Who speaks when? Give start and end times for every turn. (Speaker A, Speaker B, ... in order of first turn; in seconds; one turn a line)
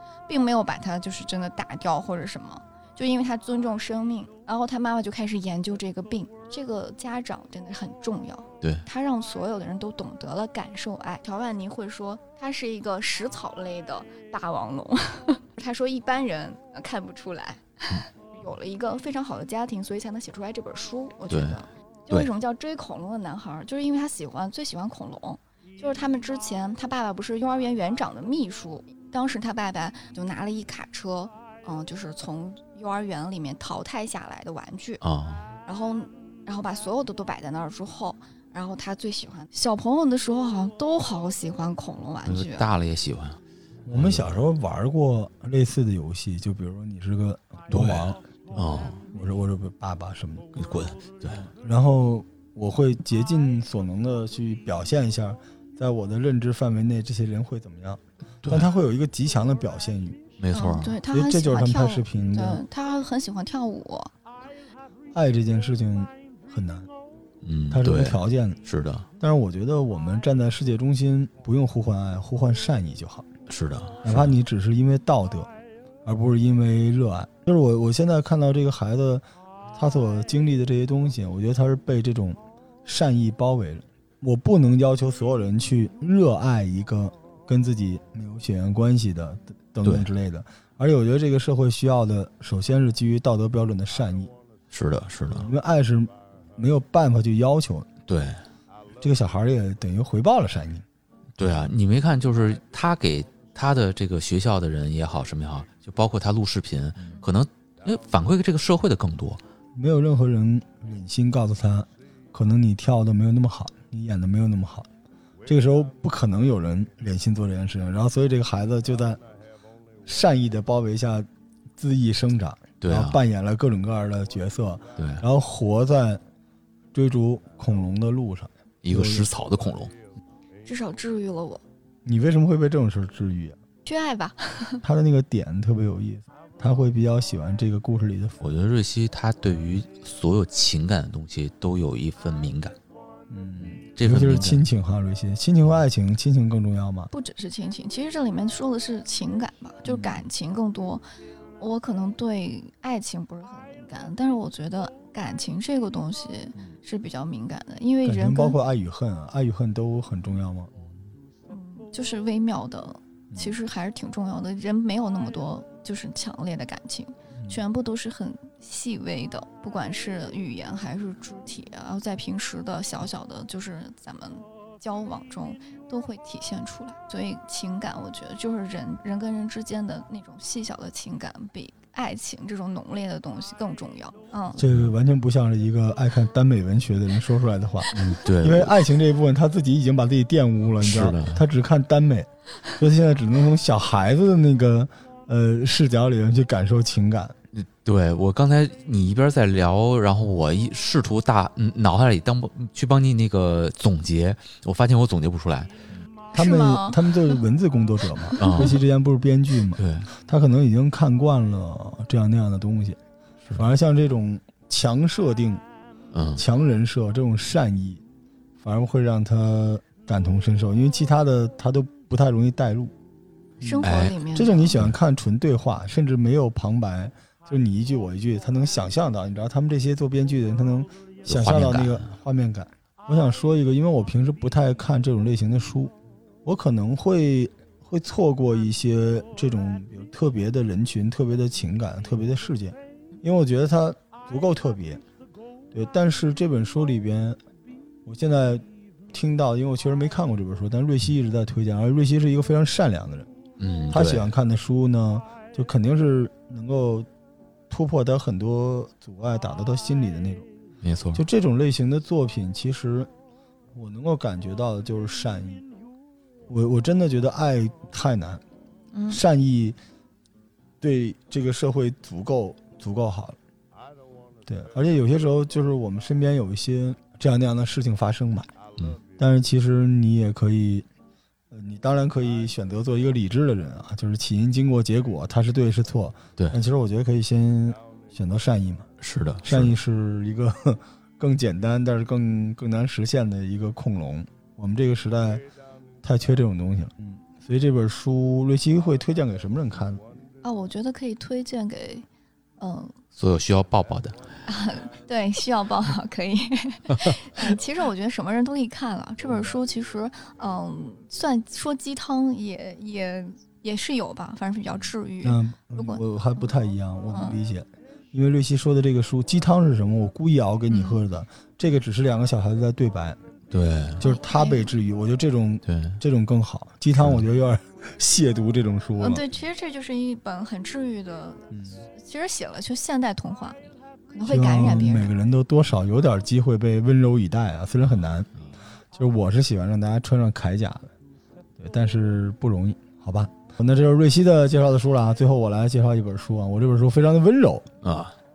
Speaker A: 0.3-35.0
Speaker B: 21.3-22.3
Speaker B: 35.0-35.5
Speaker A: 35.6-42.7
Speaker B: 42.2-43.4
Speaker C: 43.9-50.7
Speaker B: 43.9-44.4
Speaker B: 47.7-49.0
Speaker B: 50.6-51.5
Speaker C: 51.3-60.2
Speaker B: 58.4-58.7
Speaker B: 60.4-61.0
Speaker A: 60.5-64.1
Speaker C: 61.1-62.6
Speaker C: 65.1-66.9
Speaker B: 67.4-69.1
Speaker C: 67.7-68.6
Speaker C: 69.2-73.3
Speaker B: 73.5-74.3
Speaker C: 74.0-75.5
Speaker C: 76.0-94.3
Speaker B: 89.8-90.1
Speaker B: 94.7-95.5
Speaker C: 95.3-97.9
Speaker B: 98.1-98.4
Speaker C: 99.0-100.9
Speaker B: 101.4-109.4
Speaker C: 109.8-114.9
Speaker C: 115.5-119.2
Speaker C: 120.0-126.2
Speaker B: 122.8-123.2
Speaker B: 125.0-125.2
Speaker C: 126.9-129.3
Speaker B: 128.8-129.9
Speaker A: 130.7-131.6
Speaker C: 132.1-133.6
Speaker A: 133.9-134.8
Speaker C: 134.8-138.4
Speaker B: 138.4-142.8
Speaker C: 143.3-147.1
Speaker B: 144.0-144.6
Speaker A: 147.1-151.0
Speaker C: 149.9-150.2
Speaker A: 151.6-158.6
Speaker C: 158.1-160.7
Speaker A: 161.5-184.6
Speaker C: 163.3-163.6
Speaker C: 184.6-197.4
Speaker B: 187.9-188.8
Speaker B: 190.8-191.4
Speaker B: 197.5-205.8
Speaker A: 206.3-207.4
Speaker C: 206.3-213.0
Speaker A: 208.3-208.7
Speaker B: 208.4-208.8
Speaker B: 209.8-210.1
Speaker C: 213.5-215.6
Speaker B: 216.1-216.4
Speaker C: 216.4-218.0
Speaker C: 218.6-222.9
Speaker C: 223.6-245.0
Speaker A: 223.6-224.8
Speaker B: 223.8-224.2
Speaker B: 231.3-232.1
Speaker C: 245.7-247.4
Speaker C: 248.1-253.3
Speaker B: 253.6-254.3
Speaker C: 253.9-257.1
Speaker C: 257.7-260.5
Speaker B: 260.8-261.2
Speaker C: 261.1-263.1
Speaker C: 263.7-265.6
Speaker C: 266.5-268.4
Speaker A: 268.9-269.2
Speaker C: 269.1-269.8
Speaker C: 270.8-273.4
Speaker C: 274.5-278.5
Speaker C: 279.2-280.9
Speaker C: 281.5-288.9
Speaker B: 289.0-289.7
Speaker C: 289.4-295.4
Speaker C: 296.0-300.1
Speaker A: 300.4-302.1
Speaker A: 302.6-303.0
Speaker B: 303.2-304.2
Speaker A: 304.5-316.0
Speaker C: 315.2-323.2
Speaker A: 317.1-317.4
Speaker A: 320.7-321.0
Speaker B: 323.5-324.0
Speaker C: 324.0-329.2
Speaker A: 324.0-324.7
Speaker B: 325.7-326.0
Speaker B: 327.0-327.2
Speaker A: 329.0-333.6
Speaker C: 331.5-331.8
Speaker A: 334.1-335.1
Speaker C: 334.3-338.3
Speaker C: 338.9-340.9
Speaker C: 341.6-347.7
Speaker B: 347.8-348.1